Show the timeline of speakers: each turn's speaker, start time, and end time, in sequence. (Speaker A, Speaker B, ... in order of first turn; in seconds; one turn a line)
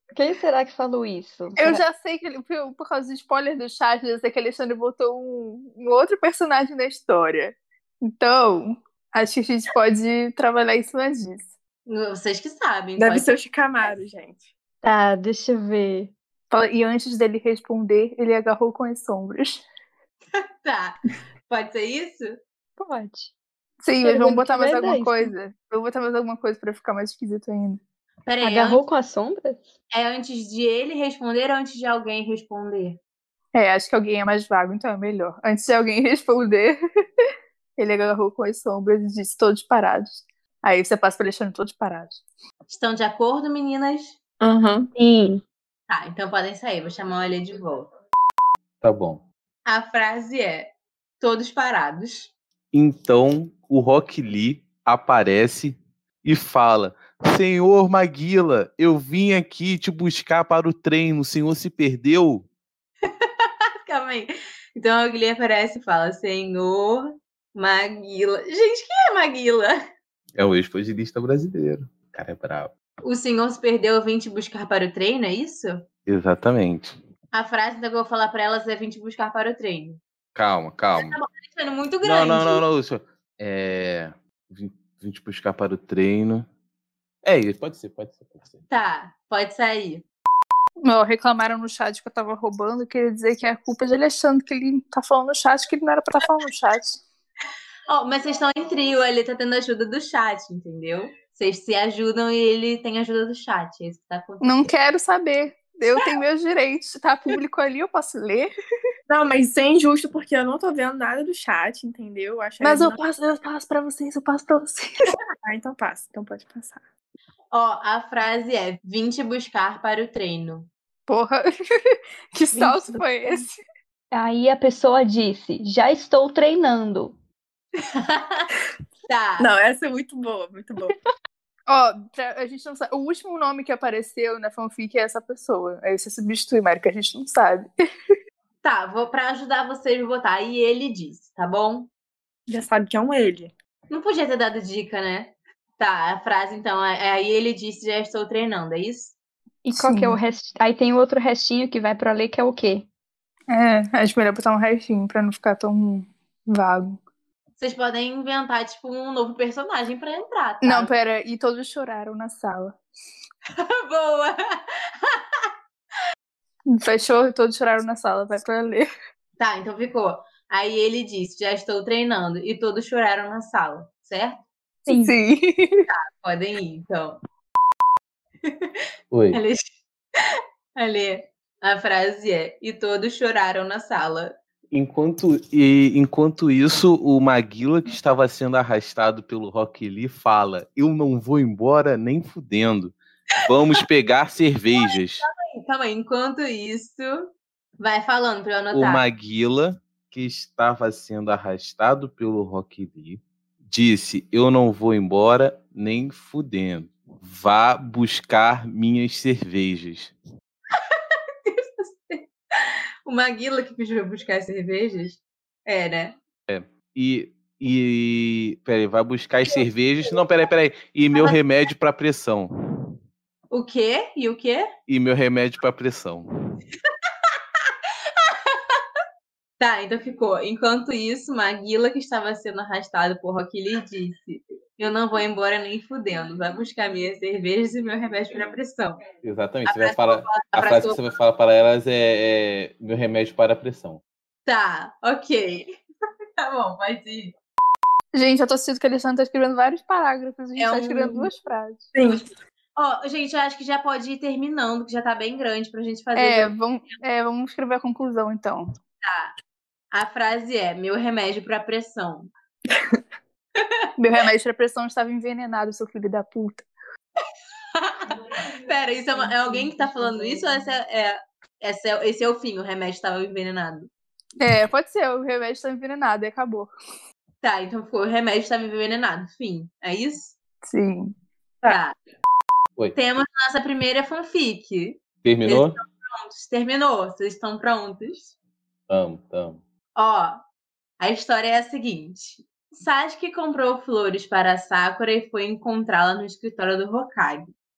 Speaker A: 0.1-1.8
Speaker B: 1.6-11.5
Speaker C: 11.9-13.3
Speaker D: 13.0-14.5
Speaker A: 14.8-16.1
Speaker B: 16.5-19.6
Speaker C: 20.6-22.4
Speaker A: 22.8-23.3
Speaker B: 23.8-27.8
Speaker A: 24.0-25.3
Speaker C: 28.2-28.8
Speaker A: 28.4-29.7
Speaker C: 29.9-33.0
Speaker B: 33.5-36.8
Speaker B: 37.8-42.2
Speaker C: 42.7-44.2
Speaker D: 44.4-44.9
Speaker A: 44.9-45.4
Speaker C: 45.9-47.9
Speaker E: 48.8-49.2
Speaker C: 49.7-52.3
Speaker E: 52.7-62.5
Speaker C: 63.2-69.8
Speaker E: 70.3-72.7
Speaker C: 73.0-75.8
Speaker E: 76.0-77.0
Speaker C: 77.3-80.0
Speaker E: 80.3-81.2
Speaker C: 80.9-82.6
Speaker E: 82.0-86.5
Speaker E: 87.2-88.6
Speaker C: 88.7-90.0
Speaker B: 90.8-97.0
Speaker C: 97.9-104.7
Speaker B: 104.4-108.5
Speaker D: 109.1-113.0
Speaker B: 112.6-115.1
Speaker D: 115.4-116.8
Speaker C: 117.5-120.7
Speaker B: 121.1-123.6
Speaker A: 122.5-123.4
Speaker A: 124.1-127.1
Speaker C: 127.9-128.5
Speaker C: 129.1-129.5
Speaker D: 129.4-130.9
Speaker B: 131.7-137.7
Speaker C: 138.6-141.9
Speaker D: 142.5-143.5
Speaker C: 143.9-149.1
Speaker A: 149.6-152.8
Speaker B: 149.8-150.2
Speaker B: 153.5-157.0
Speaker C: 157.6-160.9
Speaker B: 160.6-162.8
Speaker C: 163.6-165.5
Speaker B: 166.7-168.9
Speaker C: 169.4-174.4
Speaker A: 174.8-175.1
Speaker B: 174.9-175.8
Speaker C: 175.9-177.2
Speaker E: 179.1-179.4
Speaker C: 179.3-179.8
Speaker C: 180.8-184.3
Speaker E: 184.7-195.2
Speaker C: 194.7-199.0
Speaker E: 198.7-210.1
Speaker C: 210.9-212.3
Speaker C: 213.1-216.2
Speaker E: 216.5-222.5
Speaker C: 221.1-221.4
Speaker C: 223.5-224.7
Speaker E: 224.9-226.2
Speaker C: 228.2-228.8
Speaker C: 229.6-239.0
Speaker E: 239.2-244.0
Speaker C: 239.7-241.0
Speaker C: 244.4-245.8
Speaker C: 246.4-247.3
Speaker B: 248.1-251.9
Speaker C: 250.6-251.3
Speaker D: 251.9-252.3
Speaker C: 252.8-256.5
Speaker B: 256.1-258.7
Speaker C: 259.0-259.3
Speaker C: 259.9-262.3
Speaker B: 264.0-266.7
Speaker C: 267.8-273.9
Speaker B: 274.4-276.7
Speaker C: 277.4-280.3
Speaker B: 280.6-281.1
Speaker C: 281.6-281.9
Speaker C: 282.9-288.3
Speaker E: 285.2-285.8
Speaker E: 288.9-289.6
Speaker C: 289.9-290.4
Speaker C: 291.0-297.5